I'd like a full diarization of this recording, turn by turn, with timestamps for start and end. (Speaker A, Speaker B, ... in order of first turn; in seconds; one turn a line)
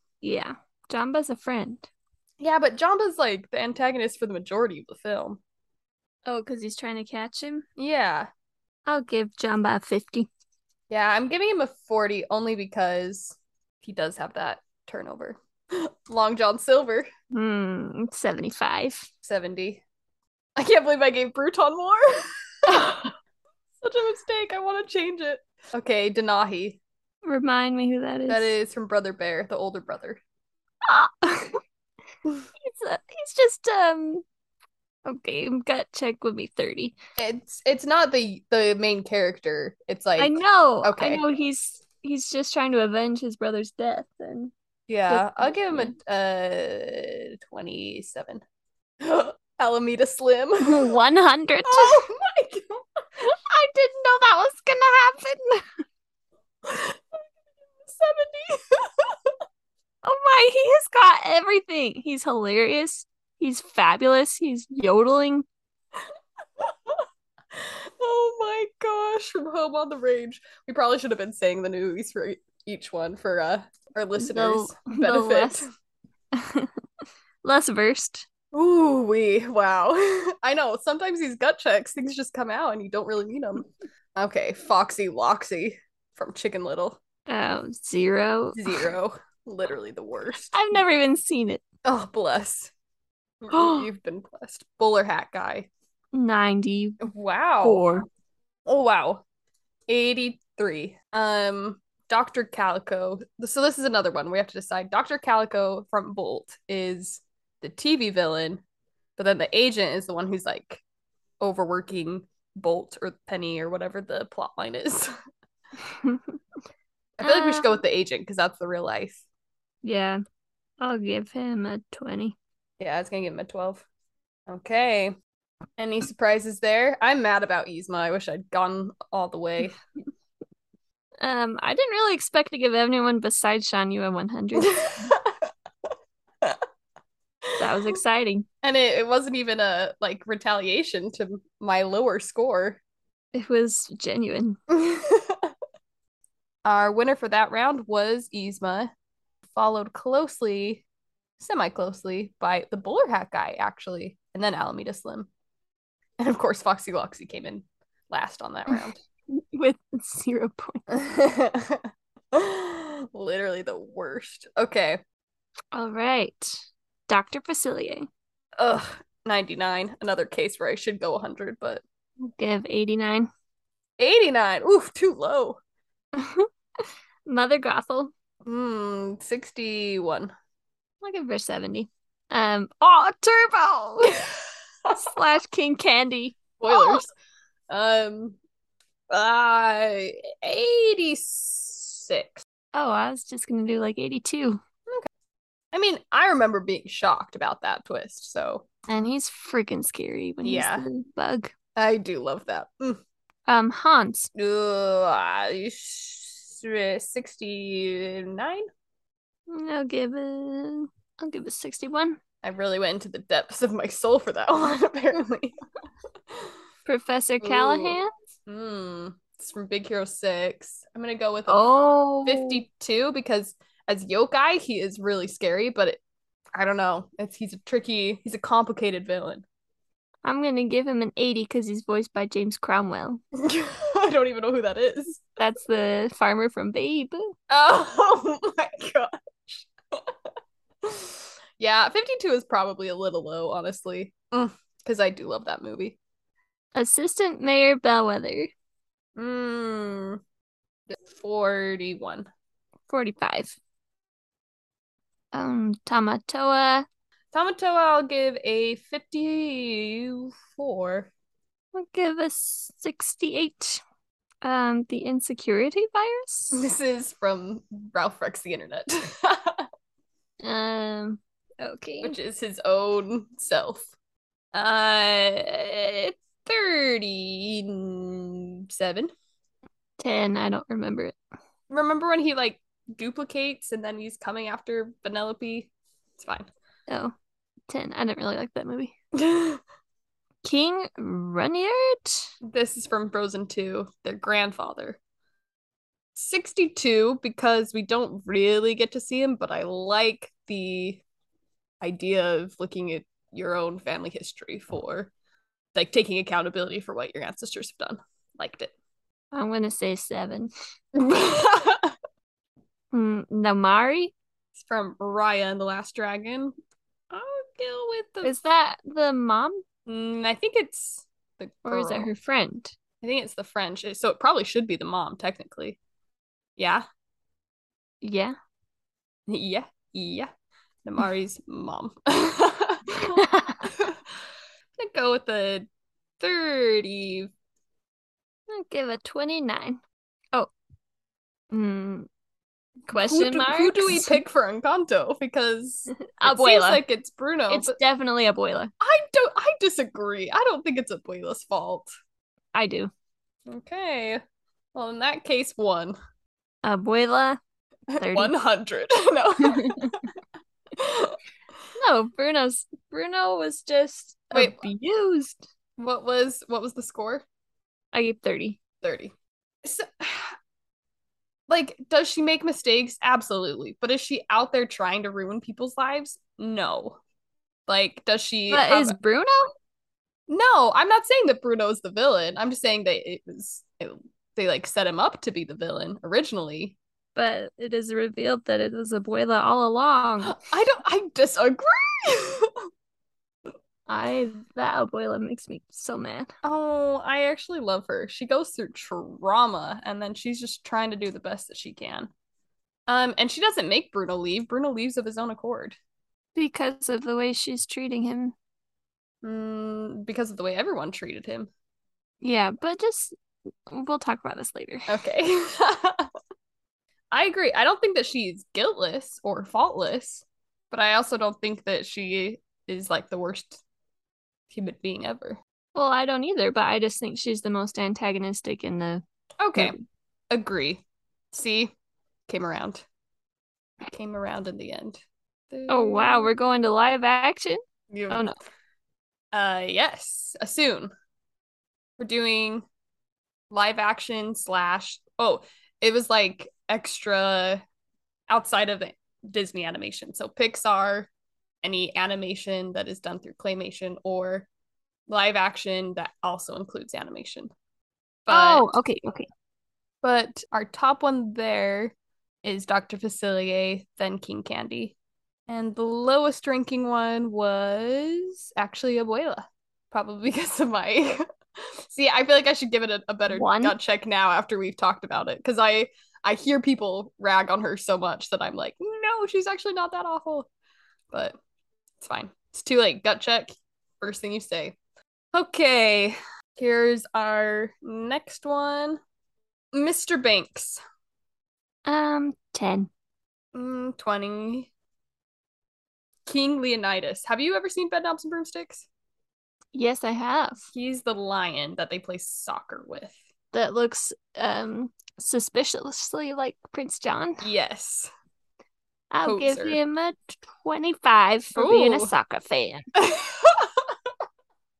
Speaker A: 0.2-1.9
Speaker B: 2.4-5.4
Speaker A: 6.2-7.7
Speaker B: 7.8-8.3
Speaker A: 8.9-10.3
Speaker B: 10.9-17.1
Speaker A: 17.3-19.1
Speaker B: 19.2-19.8
Speaker B: 20.6-23.1
Speaker B: 23.8-26.8
Speaker A: 27.2-28.5
Speaker B: 28.3-30.2
Speaker A: 30.8-31.6
Speaker A: 32.6-34.2
Speaker A: 35.0-37.0
Speaker B: 37.2-41.2
Speaker A: 40.2-44.5
Speaker B: 44.9-48.4
Speaker A: 45.1-45.9
Speaker B: 49.0-50.9
Speaker A: 50.6-52.0
Speaker B: 51.7-52.8
Speaker A: 53.2-55.6
Speaker B: 56.6-57.2
Speaker B: 57.8-59.1
Speaker A: 60.0-65.4
Speaker B: 66.6-67.0
Speaker B: 67.5-75.7
Speaker A: 74.2-75.6
Speaker A: 76.3-76.7
Speaker A: 77.4-78.2
Speaker B: 78.5-87.0
Speaker A: 87.3-88.9
Speaker B: 88.5-90.5
Speaker A: 90.5-91.6
Speaker B: 91.8-92.7
Speaker B: 93.4-95.7
Speaker A: 93.5-93.9
Speaker A: 96.1-97.0
Speaker B: 97.0-97.8
Speaker A: 97.6-98.0
Speaker B: 98.7-99.2
Speaker B: 99.9-108.6
Speaker B: 109.2-110.8
Speaker B: 111.4-115.1
Speaker A: 115.9-116.3
Speaker B: 117.2-119.2
Speaker A: 117.2-117.7
Speaker A: 119.8-120.2
Speaker A: 120.8-122.4
Speaker B: 122.8-123.8
Speaker B: 124.5-125.1
Speaker B: 125.8-129.8
Speaker A: 131.2-135.2
Speaker B: 134.6-135.3
Speaker A: 137.6-138.4
Speaker B: 138.6-142.8
Speaker A: 143.3-144.6
Speaker B: 144.7-145.5
Speaker B: 146.6-148.9
Speaker B: 149.5-150.8
Speaker B: 151.4-155.3
Speaker B: 156.2-159.0
Speaker A: 158.7-160.9
Speaker B: 160.9-165.0
Speaker A: 165.7-168.1
Speaker B: 168.6-171.8
Speaker A: 172.2-173.3
Speaker B: 174.0-175.6
Speaker A: 176.1-178.1
Speaker B: 178.4-180.3
Speaker A: 181.0-184.2
Speaker A: 184.9-187.0
Speaker B: 186.6-187.1
Speaker B: 187.7-188.4
Speaker B: 189.1-192.4
Speaker A: 192.7-194.6
Speaker B: 195.7-198.7
Speaker A: 198.9-201.5
Speaker B: 200.4-200.8
Speaker B: 201.8-203.0
Speaker A: 203.4-204.3
Speaker B: 204.3-208.7
Speaker A: 209.5-212.2
Speaker B: 212.4-215.6
Speaker A: 216.9-218.1
Speaker B: 217.4-221.6
Speaker A: 221.5-222.6
Speaker B: 222.2-226.0
Speaker B: 226.6-229.4
Speaker A: 230.2-233.2
Speaker B: 233.4-235.2
Speaker A: 235.4-237.3
Speaker B: 237.5-239.7
Speaker B: 240.8-246.0
Speaker A: 246.7-248.5
Speaker B: 249.2-250.2
Speaker B: 250.9-252.3
Speaker A: 252.9-253.6
Speaker A: 255.3-256.9
Speaker B: 257.3-261.1
Speaker A: 261.7-263.8
Speaker A: 264.4-266.6
Speaker B: 266.5-269.6
Speaker A: 270.4-272.1
Speaker B: 272.0-273.9
Speaker B: 274.5-279.1
Speaker A: 280.0-281.2
Speaker B: 281.7-286.5
Speaker A: 286.9-287.1
Speaker A: 287.7-288.9
Speaker B: 289.1-289.6
Speaker A: 290.4-292.3
Speaker B: 292.4-295.0
Speaker B: 296.1-301.0
Speaker B: 301.8-305.1
Speaker B: 305.7-308.7
Speaker A: 309.3-310.5
Speaker B: 310.9-311.9
Speaker A: 312.9-314.1
Speaker B: 314.6-316.5
Speaker B: 317.1-318.4
Speaker A: 318.2-319.6
Speaker B: 319.9-322.1
Speaker A: 321.6-322.7
Speaker B: 323.0-325.8
Speaker B: 326.6-326.9
Speaker A: 328.0-328.4
Speaker B: 329.3-330.3
Speaker B: 330.8-334.0
Speaker A: 333.1-333.6
Speaker B: 334.8-335.7
Speaker B: 336.2-337.3
Speaker A: 338.5-339.8
Speaker A: 341.5-342.1
Speaker A: 342.9-344.2
Speaker B: 342.9-347.8
Speaker A: 346.2-346.8
Speaker A: 347.5-348.7
Speaker B: 348.8-351.9
Speaker A: 352.5-352.9
Speaker B: 353.5-354.2
Speaker B: 354.7-355.9
Speaker A: 356.6-357.4
Speaker B: 357.9-360.0
Speaker A: 358.0-358.3
Speaker A: 359.4-359.9
Speaker B: 360.8-361.2
Speaker A: 361.8-365.4
Speaker B: 364.3-364.6
Speaker B: 365.8-367.2
Speaker A: 367.9-368.6
Speaker B: 368.8-369.1
Speaker B: 369.6-370.4
Speaker B: 371.5-377.0
Speaker B: 377.7-379.0
Speaker A: 378.5-379.5
Speaker B: 380.3-386.8
Speaker A: 387.1-390.4
Speaker B: 390.2-392.6
Speaker A: 393.9-396.3
Speaker B: 396.4-402.1
Speaker B: 402.9-405.8
Speaker A: 406.4-408.3
Speaker B: 409.2-411.5
Speaker A: 412.2-413.1
Speaker A: 413.7-414.9
Speaker B: 414.9-416.1
Speaker B: 417.1-423.6
Speaker B: 424.5-425.4
Speaker A: 425.7-429.0
Speaker B: 429.4-429.8
Speaker A: 429.6-429.8
Speaker B: 430.3-431.7
Speaker B: 432.3-432.9
Speaker B: 433.9-436.3
Speaker A: 435.7-438.4
Speaker B: 437.9-438.2
Speaker B: 439.3-440.9
Speaker B: 442.0-442.6
Speaker B: 443.5-447.6
Speaker B: 448.3-451.1
Speaker B: 451.6-454.5
Speaker B: 455.1-457.5
Speaker B: 458.2-458.7
Speaker A: 458.3-459.3
Speaker B: 460.0-464.9
Speaker B: 465.5-471.2
Speaker B: 471.9-480.5
Speaker A: 473.3-473.8
Speaker B: 481.1-481.4
Speaker B: 482.0-484.8
Speaker B: 485.3-489.0
Speaker B: 489.7-490.8
Speaker A: 491.9-492.9
Speaker B: 493.6-494.7
Speaker B: 496.3-498.9
Speaker A: 499.7-500.7
Speaker B: 500.7-503.1
Speaker A: 503.5-507.4
Speaker B: 507.4-508.1
Speaker A: 509.1-512.9
Speaker B: 509.2-509.8
Speaker B: 511.6-512.1
Speaker B: 513.0-513.9